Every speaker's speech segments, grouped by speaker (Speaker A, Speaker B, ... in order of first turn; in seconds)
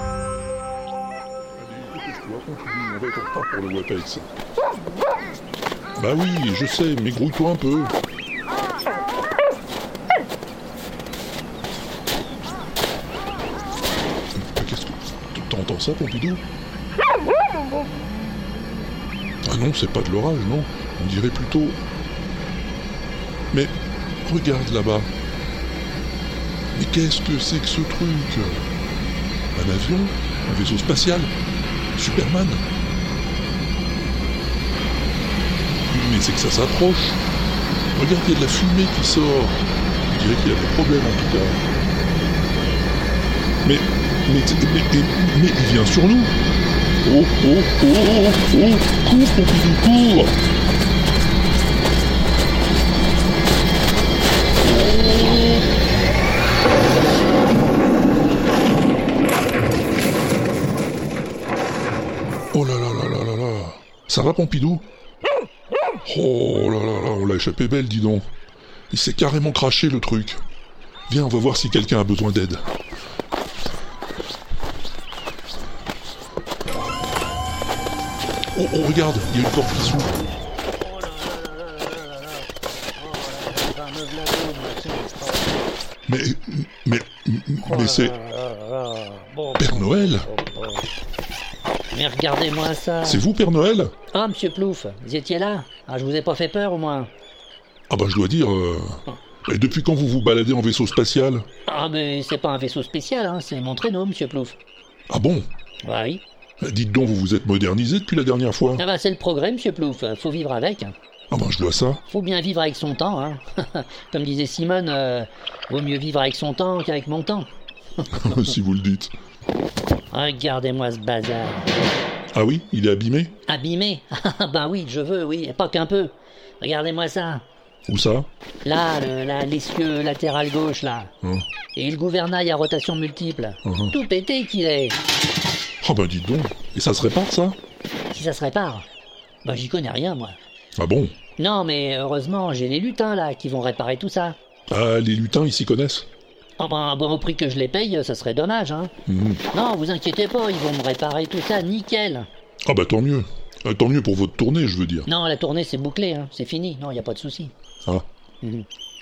Speaker A: 1.6-4.3, 6.0-7.9, 14.3-16.4, 19.4-21.8, 23.5-25.1, 26.8-28.7, 29.5-31.3, 32.0-32.6, 35.9-37.2, 38.0-41.6, 43.6-46.3, 47.0-50.3, 62.5-64.8, 66.0-68.3, 68.9-70.4, 71.1-72.7, 78.5-80.2, 86.1-88.1, 89.6-90.3, 93.0-93.9, 97.9-101.5, 105.1-105.5, 106.6-108.8, 111.3-112.0, 118.2-119.1, 122.3-123.3, 127.9-128.3, 133.7-133.9, 135.8-137.6, 140.8-141.2, 144.7-146.1, 149.1-149.4, 152.7-155.1
Speaker B: 54.9-55.6, 80.9-82.4, 83.0-85.6, 87.7-90.9, 91.9-93.2, 94.1-97.1, 101.7-104.6, 105.8-106.2, 108.8-110.9, 112.1-117.5, 120.1-121.7, 123.5-127.4, 128.7-131.1, 131.8-135.0, 138.1-138.9, 139.4-140.3, 141.4-144.4, 146.6-148.9, 149.5-152.3, 155.1-157.5